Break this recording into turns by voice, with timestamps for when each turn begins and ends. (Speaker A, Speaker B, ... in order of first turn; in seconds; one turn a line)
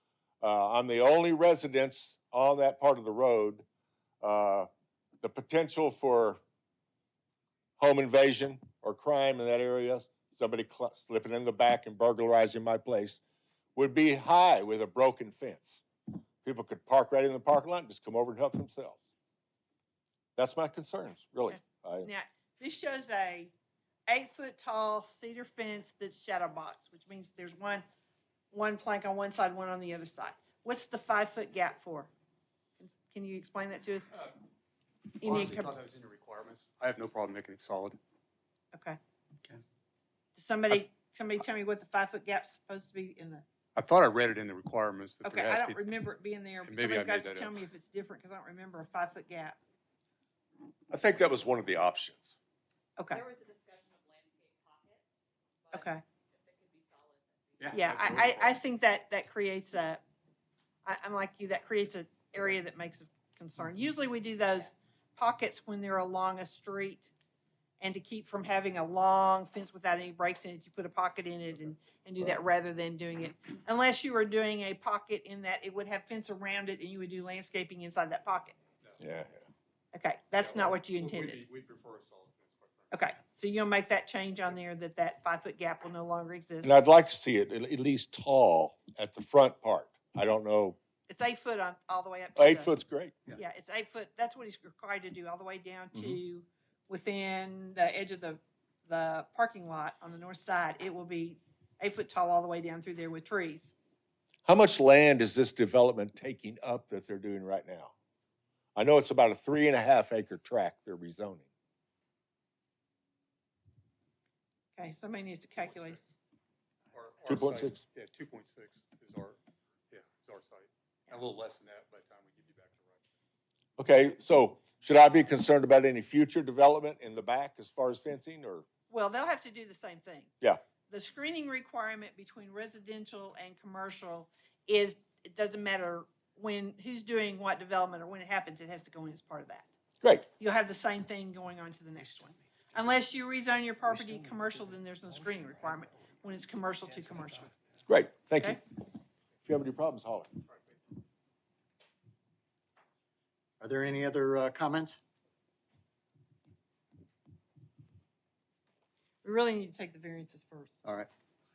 Speaker A: 0.4-3.6
Speaker A: 4.2-4.7
Speaker A: 5.2-6.4
Speaker A: 7.8-13.2
Speaker A: 13.8-15.8
Speaker A: 16.4-19.0
Speaker A: 20.4-22.1
Speaker B: 21.5-23.5
Speaker B: 24.1-27.8
Speaker B: 28.5-32.1
Speaker B: 32.8-34.1
Speaker C: 35.2-38.0
Speaker B: 35.2-35.7
Speaker B: 38.7-39.0
Speaker B: 40.4-43.5
Speaker C: 43.8-45.9
Speaker B: 45.2-49.6
Speaker C: 46.6-47.6
Speaker A: 50.9-52.3
Speaker B: 53.0-53.2
Speaker D: 53.1-58.0
Speaker B: 55.7-56.0
Speaker C: 57.6-58.6
Speaker B: 57.7-60.0
Speaker B: 60.9-67.1
Speaker B: 67.8-78.6
Speaker A: 79.0-79.5
Speaker B: 79.9-81.4
Speaker C: 80.4-83.2
Speaker B: 82.9-86.8
Speaker A: 86.6-90.8
Speaker B: 91.1-92.7
Speaker A: 92.4-93.2
Speaker B: 93.3-103.7
Speaker A: 104.5-107.9
Speaker A: 108.8-111.5
Speaker B: 114.8-116.0
Speaker C: 115.6-116.1
Speaker C: 116.9-123.1
Speaker A: 117.3-117.8
Speaker A: 123.8-128.7
Speaker B: 128.9-130.3
Speaker B: 130.9-139.7
Speaker B: 140.4-147.5
Speaker E: 143.8-145.8
Speaker E: 146.9-147.5
Speaker A: 147.9-148.6
Speaker A: 149.4-150.3
Speaker E: 153.6-155.0
Speaker B: 159.2-160.8
Speaker E: 160.8-161.1